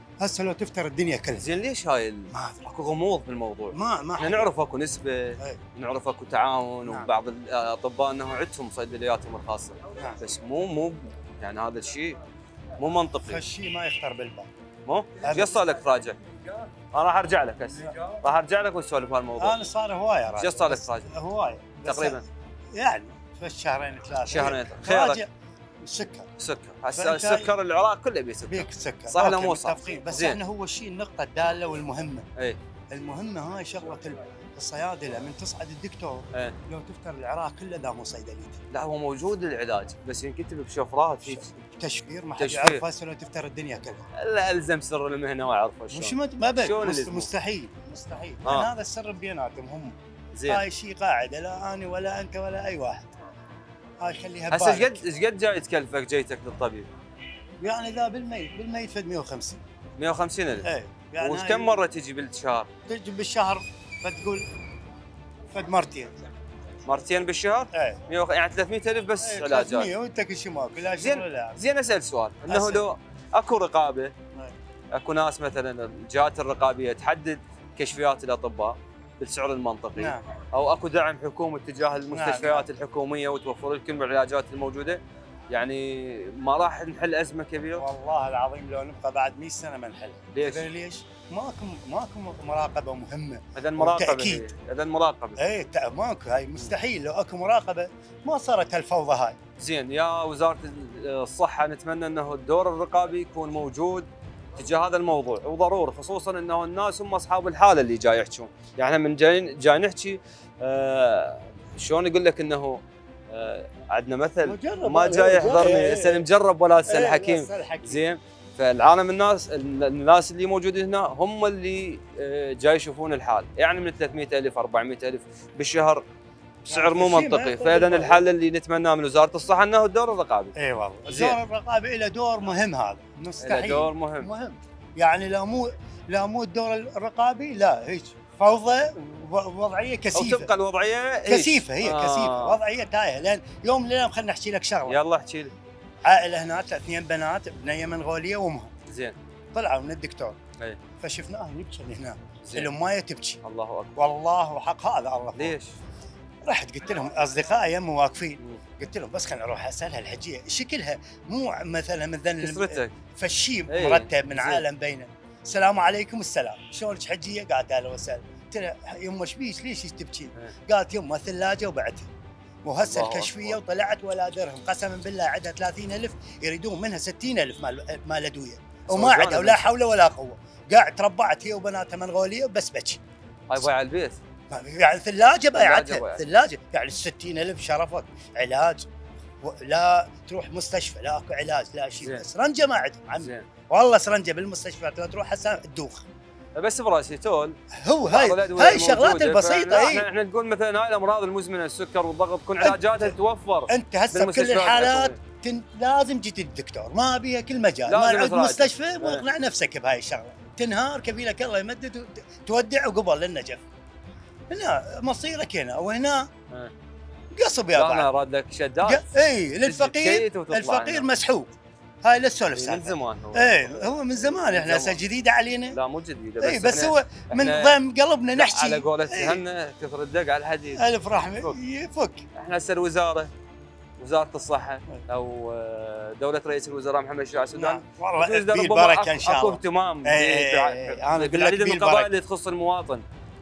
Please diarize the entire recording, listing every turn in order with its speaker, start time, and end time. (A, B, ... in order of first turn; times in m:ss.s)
0:00.2-0:01.5 A
0:01.4-0:12.2 B
0:02.3-0:02.6 A
0:03.7-0:04.5 A
0:06.9-0:07.1 A
0:12.8-0:13.4 B
0:13.2-0:14.5 A
0:14.9-0:16.2 B
0:15.2-0:15.6 A
0:16.9-0:19.6 B
0:19.4-0:25.3 A
0:20.4-0:21.1 B
0:21.8-0:22.2 B
0:24.3-0:25.2 B
0:25.8-0:26.3 A
0:26.4-0:30.4 B
0:27.0-0:27.5 A
0:28.5-0:32.2 A
0:32.9-0:38.6 A
0:38.7-0:41.5 B
0:41.2-0:44.0 A
0:42.4-0:42.8 B
0:44.1-0:47.3 B
0:45.9-0:50.0 A
0:48.4-0:48.7 B
0:50.3-0:50.6 B
0:50.5-0:53.1 A
0:54.0-0:55.0 A
0:54.5-0:56.9 B
0:57.6-0:59.6 A
1:00.0-1:00.7 B
1:00.6-1:01.8 A
1:01.2-1:02.7 B
1:02.9-1:04.5 A
1:05.5-1:06.1 A
1:06.9-1:09.9 B
1:07.7-1:08.0 A
1:09.2-1:11.6 A
1:11.0-1:14.1 B
1:12.5-1:12.8 A
1:14.9-1:27.9 B
1:20.0-1:20.2 A
1:22.1-1:22.7 A
1:27.8-1:34.5 A
1:30.3-1:30.6 B
1:33.6-1:35.4 B
1:35.4-1:39.4 A
1:39.6-2:06.0 B
1:54.4-1:56.2 A
1:56.9-1:58.0 A
2:06.7-2:08.2 A
2:06.7-2:10.5 B
2:10.6-2:20.5 A
2:11.1-2:11.4 B
2:13.4-2:14.3 B
2:20.1-2:22.6 B
2:21.3-2:25.0 A
2:24.9-2:25.5 B
2:26.0-2:28.7 A
2:28.9-2:29.2 B
2:29.5-2:30.4 A
2:31.0-2:33.4 A
2:32.4-2:32.7 B
2:33.4-2:34.1 B
2:34.0-2:35.6 A
2:35.4-2:35.7 B
2:36.4-2:52.1 A
2:42.4-2:43.0 B
2:43.7-2:44.6 B
2:52.6-3:03.0 A
2:52.8-2:53.6 B
2:58.9-2:59.8 B
3:03.5-3:04.2 B
3:04.5-3:08.9 A
3:05.6-3:06.2 B
3:09.4-3:16.0 A
3:13.2-3:13.5 B
3:16.6-3:17.6 B
3:17.7-3:20.1 A
3:18.1-3:25.2 B
3:22.6-3:23.1 A
3:23.7-3:33.6 A
3:27.9-3:29.2 B
3:34.5-3:36.3 A
3:37.3-3:38.1 A
3:37.7-3:39.1 B
3:38.8-3:41.5 A
3:39.6-3:41.1 B
3:42.0-3:45.8 A
3:42.6-3:43.6 B
3:44.2-3:45.0 B
3:45.7-3:47.8 B
3:46.4-3:49.4 A
3:48.4-3:50.8 B
3:50.8-3:52.2 A
3:52.4-3:53.3 B
3:54.0-4:03.0 B
3:57.5-4:02.1 A